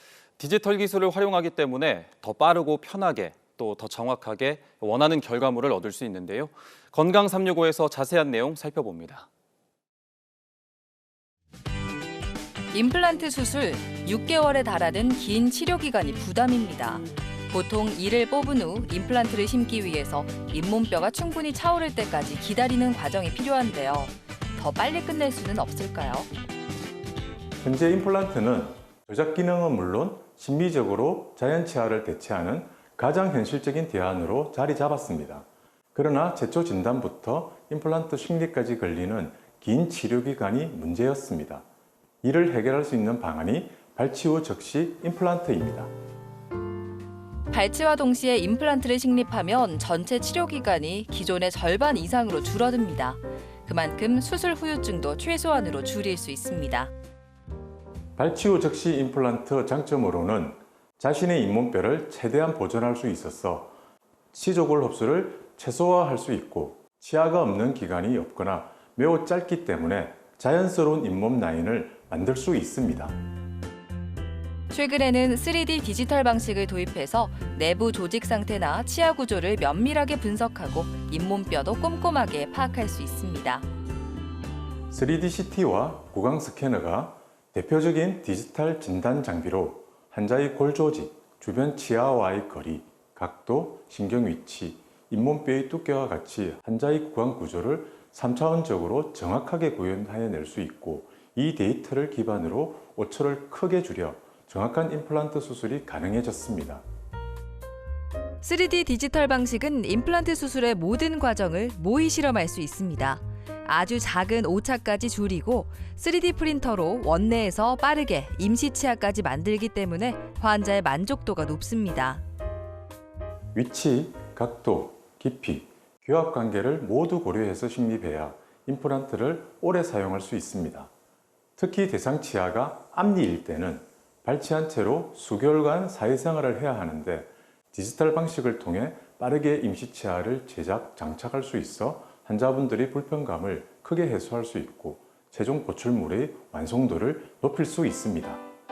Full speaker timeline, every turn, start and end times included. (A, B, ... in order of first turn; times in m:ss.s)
0:00.4-0:09.3 A
0:12.7-0:26.3 B
0:27.6-0:41.6 C
0:42.2-0:45.9 C
0:47.5-0:56.9 B
0:58.2-1:03.8 C
1:04.3-1:13.2 C
1:14.7-1:23.7 B
1:24.9-1:46.8 C
1:48.4-2:02.2 B
2:03.6-2:10.9 C
2:11.6-2:28.4 C